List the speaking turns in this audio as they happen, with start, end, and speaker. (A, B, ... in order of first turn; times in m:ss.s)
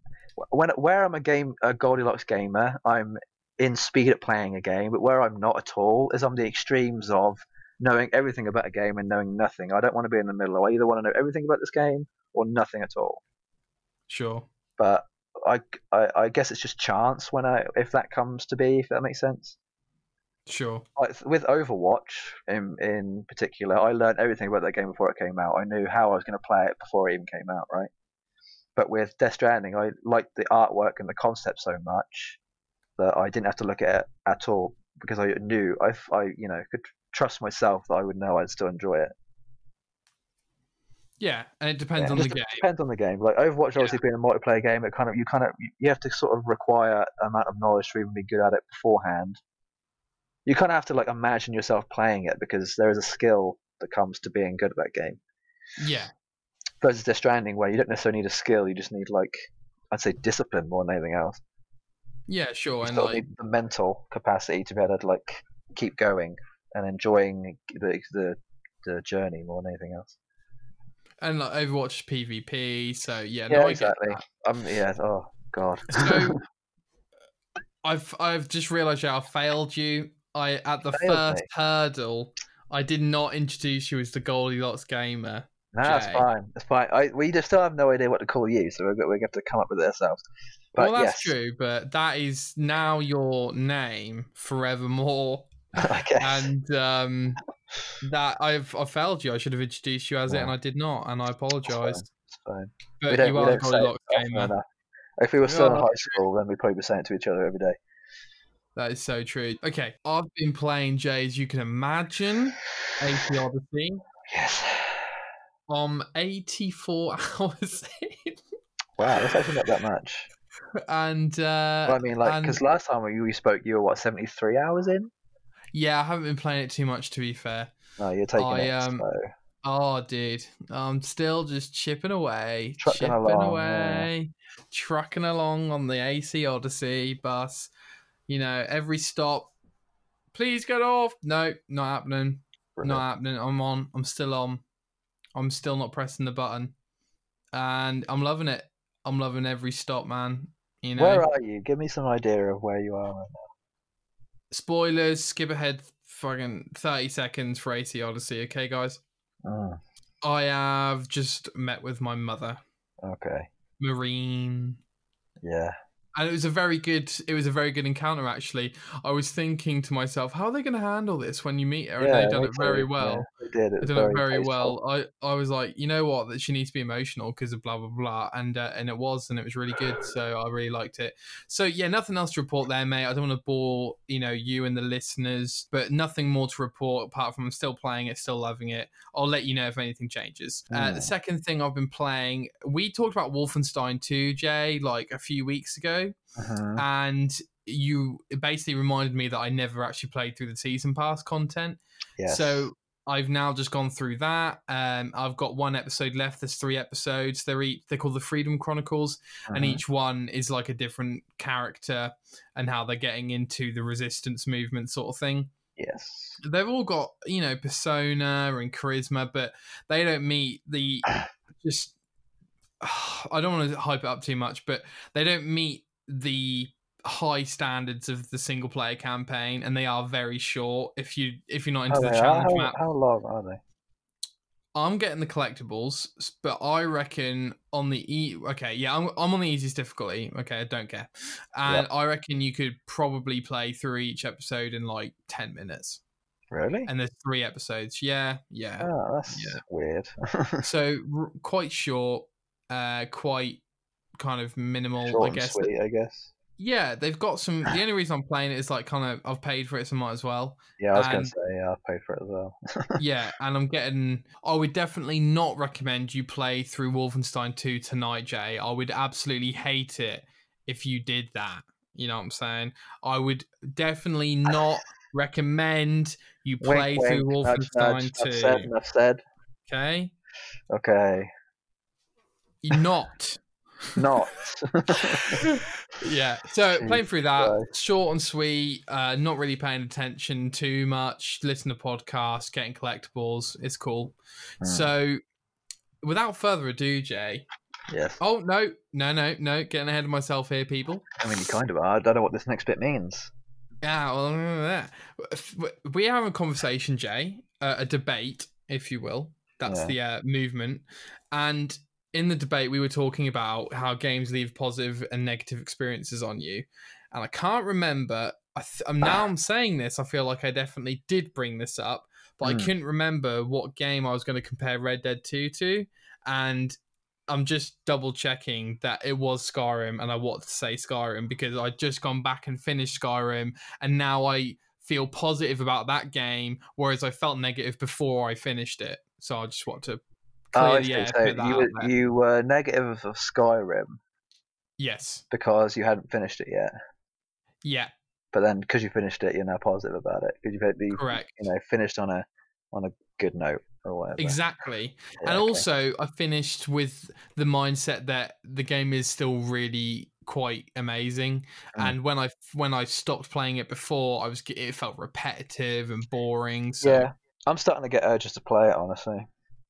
0:00.4-0:13.2 A
0:14.1-0:14.5 B
0:14.8-0:19.6 A
0:20.5-0:20.8 B
0:21.0-0:27.9 A
0:28.8-0:32.4 A
0:33.0-0:39.1 A
0:41.2-0:42.6 B
0:42.0-0:49.4 A
0:50.4-0:55.2 A
0:55.8-0:56.1 B
0:56.8-0:59.4 A
0:59.9-1:01.4 A
1:02.3-1:03.2 B
1:02.8-1:10.2 A
1:11.2-1:14.2 B
1:13.5-1:16.4 A
1:15.9-1:16.4 B
1:17.8-1:26.3 B
1:20.9-1:21.4 A
1:25.7-1:30.2 A
1:30.7-1:31.3 A
1:30.8-1:37.4 B
1:35.8-1:36.5 A
1:38.0-1:42.0 B
1:40.3-1:40.5 A
1:41.7-1:44.6 A
1:43.0-1:44.5 B
1:45.2-1:47.8 A
1:45.4-1:46.2 B
1:48.8-1:54.0 B
1:54.3-1:55.1 A
1:55.7-1:58.4 B
1:59.0-2:00.3 A
2:00.9-2:02.6 B
2:01.9-2:05.1 A
2:05.7-2:07.7 B
2:08.0-2:09.3 A
2:08.4-2:09.0 B
2:09.6-2:17.7 B
2:12.8-2:14.1 A
2:18.3-2:19.5 B
2:20.3-2:24.6 B
2:22.8-2:23.0 A
2:25.3-2:26.7 B
2:27.5-2:31.2 B
2:31.0-2:33.5 A
2:34.5-2:39.0 B
2:39.4-2:39.8 A
2:40.2-2:42.6 B
2:43.0-2:43.5 A
2:43.8-2:44.8 B
2:45.4-2:45.7 A
2:46.2-2:53.3 B
2:52.0-2:54.8 A
2:53.8-3:16.1 B
3:10.7-3:11.1 A
3:16.4-3:16.8 A
3:16.8-3:35.5 B
3:22.2-3:22.7 A
3:29.5-3:29.8 A
3:35.8-3:36.4 A
3:36.4-3:41.9 B
3:42.8-3:52.8 B
3:51.9-3:53.6 A
3:54.7-4:06.0 B
4:06.5-4:06.9 A
4:06.9-4:09.6 B
4:08.8-4:10.6 A
4:10.6-4:13.6 B
4:14.2-4:15.7 B
4:15.1-4:16.3 A
4:16.6-4:21.3 B
4:20.8-4:23.0 A
4:23.0-4:38.7 B
4:36.6-4:39.2 A
4:39.7-4:40.1 B
4:40.7-4:41.3 A
4:42.6-4:44.0 B
4:44.0-4:45.4 A
4:45.1-4:55.2 B
4:46.8-4:47.7 A
4:54.6-4:54.9 A
4:56.0-4:57.4 B
4:57.9-4:58.2 A
4:58.2-5:01.1 B
5:01.2-5:03.3 A
5:03.8-5:26.8 B
5:09.6-5:09.9 A
5:22.4-5:22.7 A
5:27.3-5:40.0 B
5:40.5-5:41.9 B
5:40.5-5:44.0 A
5:44.8-5:45.2 B
5:45.3-5:46.7 A
5:47.6-5:47.9 B
5:48.3-5:54.4 A
5:50.9-5:51.4 B
5:54.2-6:07.1 B
5:55.2-5:55.6 A
6:06.8-6:09.3 A